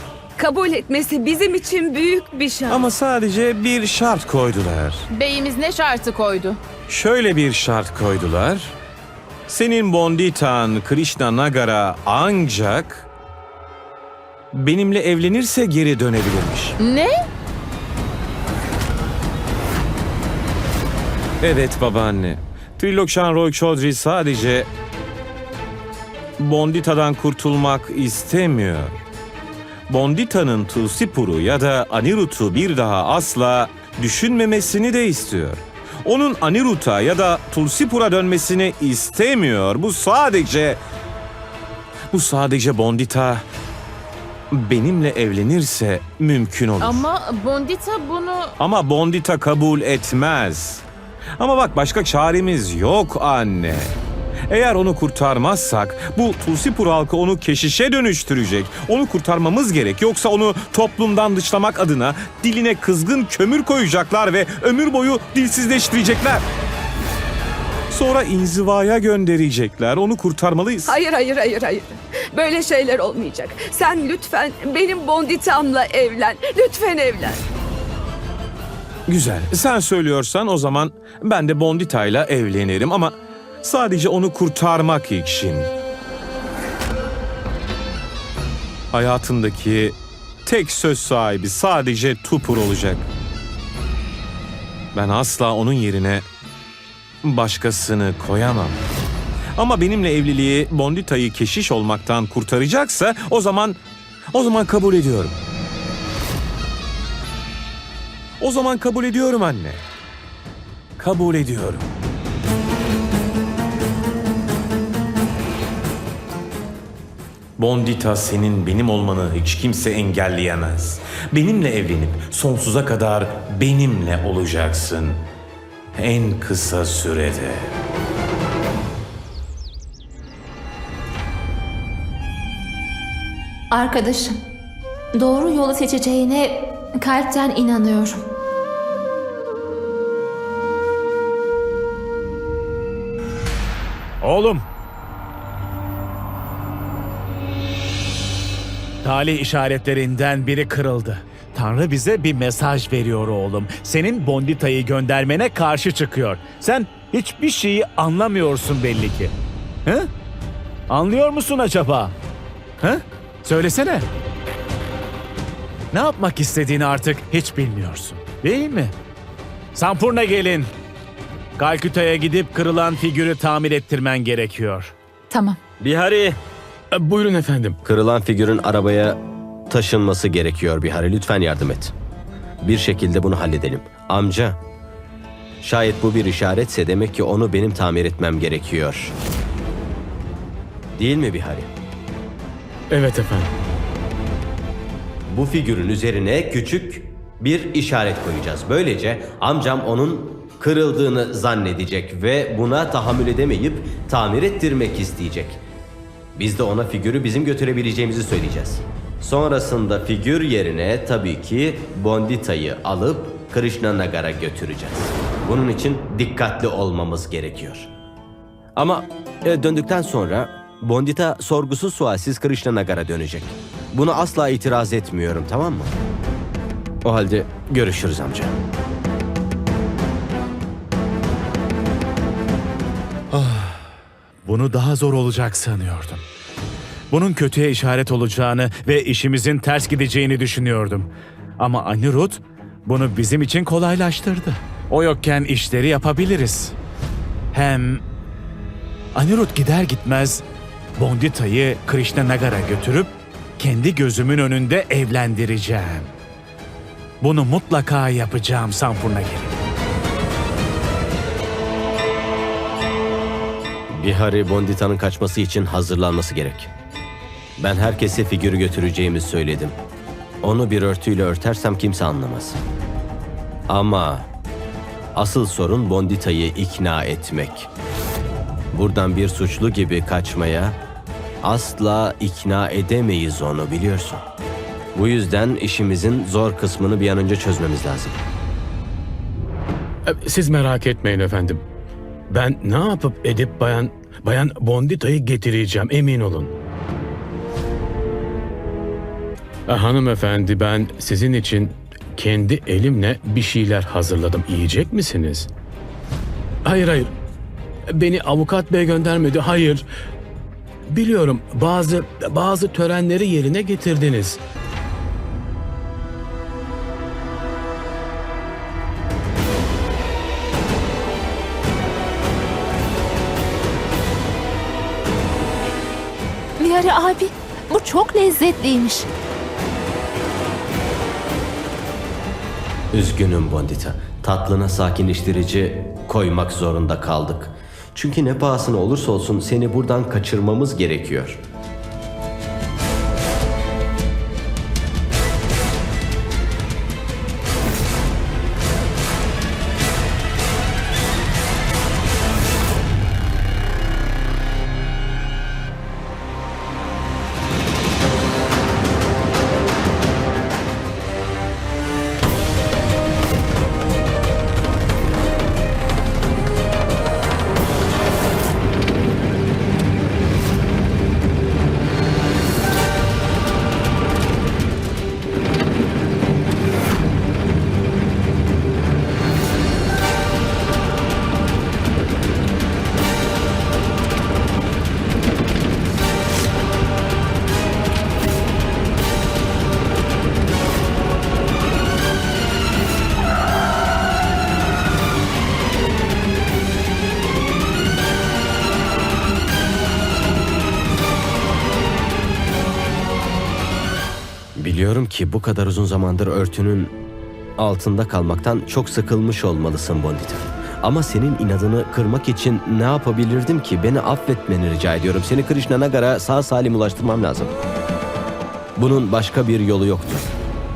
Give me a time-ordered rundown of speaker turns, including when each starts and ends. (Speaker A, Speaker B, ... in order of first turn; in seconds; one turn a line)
Speaker A: 0.4-2.9
Speaker B: 2.7-5.0
Speaker C: 5.1-6.6
Speaker B: 6.9-8.8
Speaker B: 9.5-13.1
Speaker B: 14.5-16.8
Speaker C: 16.8-17.1
Speaker B: 21.4-24.7
Speaker B: 26.4-29.0
Speaker B: 29.9-40.8
Speaker B: 42.1-43.4
Speaker B: 44.5-47.0
Speaker C: 46.8-48.5
Speaker B: 48.6-50.8
Speaker B: 51.4-53.9
Speaker B: 54.5-66.4
Speaker B: 67.9-71.0
Speaker A: 70.8-77.4
Speaker B: 79.1-85.7
Speaker B: 88.9-93.1
Speaker B: 94.9-96.2
Speaker B: 97.2-98.8
Speaker B: 99.5-103.8
Speaker B: 104.3-105.3
Speaker B: 108.4-109.8
Speaker B: 111.0-111.9
Speaker B: 117.6-125.2
Speaker B: 125.9-127.7
Speaker D: 133.7-134.4
Speaker D: 135.1-138.2
Speaker E: 144.2-144.6
Speaker E: 149.0-159.3
Speaker E: 160.9-162.1
Speaker E: 162.8-164.1
Speaker E: 165.9-168.9
Speaker E: 169.7-170.7
Speaker E: 171.6-174.9
Speaker D: 175.3-175.6
Speaker F: 175.8-176.4
Speaker G: 176.9-177.8
Speaker F: 177.8-179.2
Speaker F: 179.7-181.9
Speaker F: 182.6-184.6
Speaker F: 185.6-189.1
Speaker F: 190.9-191.7
Speaker G: 192.9-193.5
Speaker F: 195.3-205.6
Speaker F: 206.3-217.9
Speaker F: 218.8-225.9
Speaker F: 227.0-228.6
Speaker E: 233.3-233.8
Speaker E: 234.4-236.2
Speaker E: 237.1-246.8
Speaker E: 247.5-248.0
Speaker E: 249.1-250.4
Speaker E: 250.9-256.1
Speaker E: 257.2-259.6
Speaker F: 263.9-266.7
Speaker F: 267.6-269.8
Speaker F: 270.4-272.6
Speaker F: 273.7-274.3
Speaker F: 275.1-277.7
Speaker F: 278.7-280.8
Speaker F: 281.4-284.2
Speaker F: 284.9-288.2
Speaker G: 290.0-291.6
Speaker G: 292.3-296.5
Speaker G: 299.7-305.5
Speaker G: 306.6-307.1
Speaker G: 307.9-309.9
Speaker G: 310.9-314.4
Speaker D: 326.6-329.1
Speaker F: 332.9-341.4
Speaker F: 404.6-406.9
Speaker F: 407.6-417.5
Speaker F: 418.8-420.3